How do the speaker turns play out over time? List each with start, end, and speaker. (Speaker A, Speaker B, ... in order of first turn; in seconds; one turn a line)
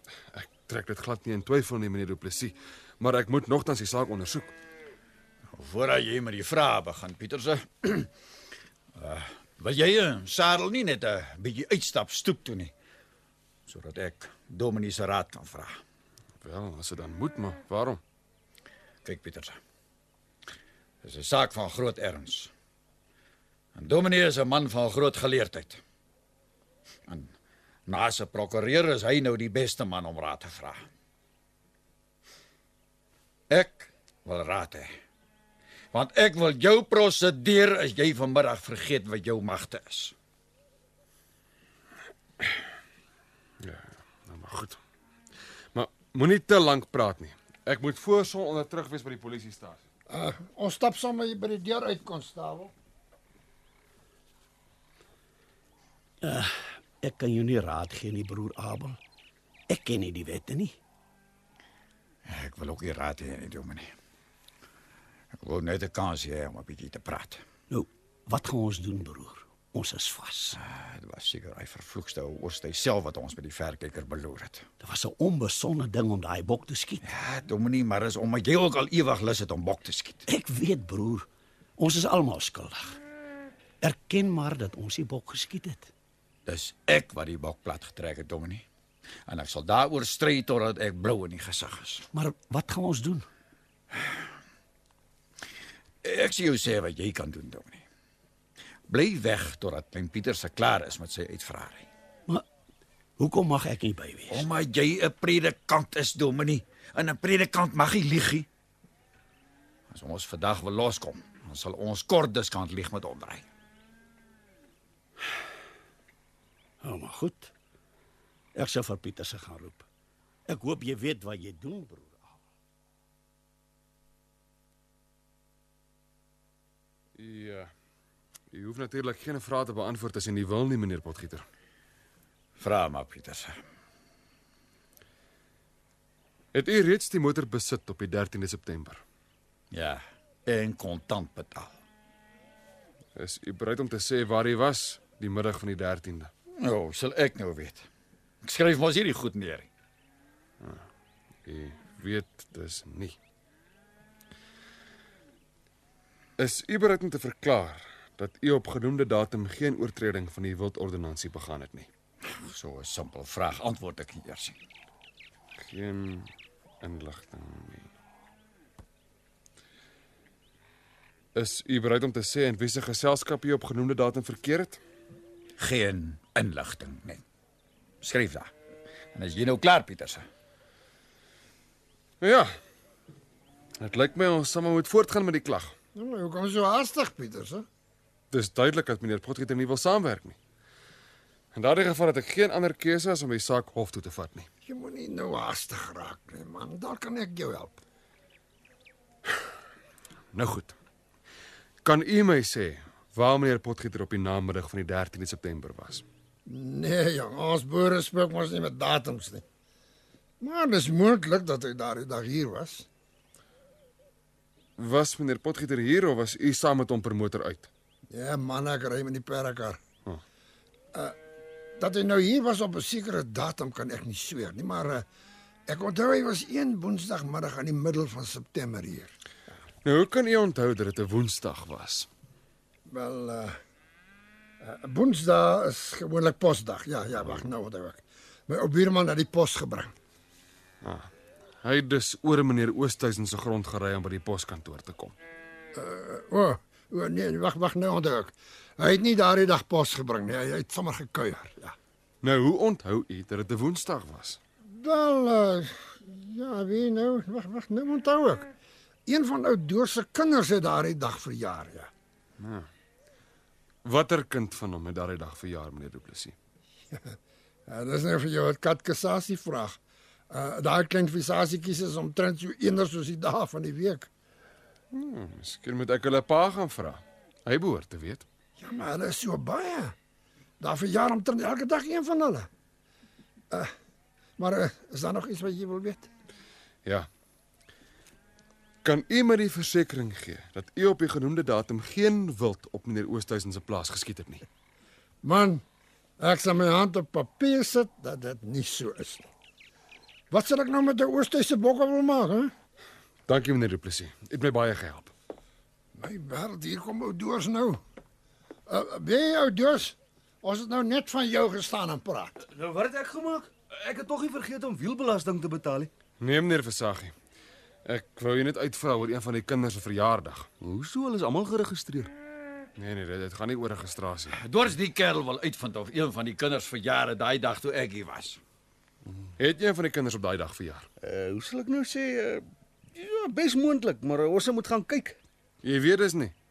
Speaker A: 0.3-4.5
Speaker B: 5.5-8.1
Speaker B: 9.0-12.7
Speaker B: 13.7-15.8
Speaker A: 16.4-18.0
Speaker B: 19.1-19.6
Speaker B: 21.0-22.5
Speaker B: 23.8-25.8
Speaker B: 27.9-30.8
Speaker B: 33.5-34.9
Speaker B: 35.9-40.1
Speaker A: 43.6-44.8
Speaker A: 45.7-49.8
Speaker C: 50.1-52.7
Speaker D: 56.2-59.0
Speaker D: 59.7-60.8
Speaker B: 62.3-63.9
Speaker B: 65.4-67.4
Speaker D: 67.7-70.6
Speaker B: 70.6-74.7
Speaker D: 74.8-77.0
Speaker B: 77.0-80.2
Speaker D: 80.3-81.3
Speaker D: 81.8-83.0
Speaker D: 83.8-85.9
Speaker B: 86.5-88.6
Speaker B: 89.3-92.1
Speaker D: 92.1-93.3
Speaker B: 93.9-94.2
Speaker B: 96.0-97.8
Speaker B: 98.9-101.9
Speaker D: 103.2-104.5
Speaker B: 104.3-108.5
Speaker B: 109.9-113.5
Speaker D: 116.8-117.5
Speaker D: 118.5-119.9
Speaker D: 120.5-122.4
Speaker A: 127.2-127.7
Speaker A: 128.5-131.4
Speaker B: 132.6-133.6
Speaker A: 136.5-139.0
Speaker B: 139.7-141.8
Speaker A: 143.2-146.3
Speaker B: 146.6-147.8
Speaker B: 148.4-149.7
Speaker A: 151.4-153.2
Speaker A: 156.4-161.9
Speaker B: 162.3-164.6
Speaker A: 165.6-166.3
Speaker A: 166.8-167.9
Speaker A: 171.3-174.8
Speaker B: 175.6-177.2
Speaker B: 178.0-178.5
Speaker B: 179.1-180.2
Speaker A: 182.2-182.5
Speaker A: 183.8-185.7
Speaker C: 185.9-187.7
Speaker A: 188.3-190.4
Speaker A: 191.5-194.5
Speaker C: 194.7-197.8
Speaker A: 200.3-200.8
Speaker A: 201.8-206.0
Speaker C: 206.5-209.4
Speaker C: 210.4-212.9
Speaker A: 214.8-217.7
Speaker C: 218.1-219.8
Speaker C: 221.8-225.1
Speaker C: 225.7-229.1
Speaker A: 229.8-232.1
Speaker C: 232.9-233.6
Speaker C: 234.6-239.9
Speaker A: 237.2-237.4
Speaker A: 240.8-241.1
Speaker A: 241.6-245.2
Speaker C: 245.7-251.8
Speaker A: 252.2-254.4
Speaker C: 254.7-258.5
Speaker C: 259.1-261.9
Speaker A: 262.4-262.7
Speaker A: 263.8-266.4
Speaker C: 267.7-269.8
Speaker C: 270.3-274.1
Speaker A: 274.9-278.3
Speaker C: 278.6-279.9
Speaker C: 280.6-282.5
Speaker C: 284.4-286.1
Speaker A: 288.8-294.4
Speaker C: 295.2-295.6
Speaker C: 296.2-299.3
Speaker C: 300.3-302.5
Speaker A: 303.3-305.1
Speaker C: 306.0-307.8
Speaker C: 308.7-312.3
Speaker E: 312.4-315.9
Speaker A: 316.2-317.1
Speaker A: 317.9-320.5
Speaker E: 320.6-322.1
Speaker A: 322.8-324.4
Speaker B: 324.4-328.4
Speaker A: 329.4-330.9
Speaker E: 331.0-332.4
Speaker E: 332.9-335.2
Speaker A: 335.6-336.3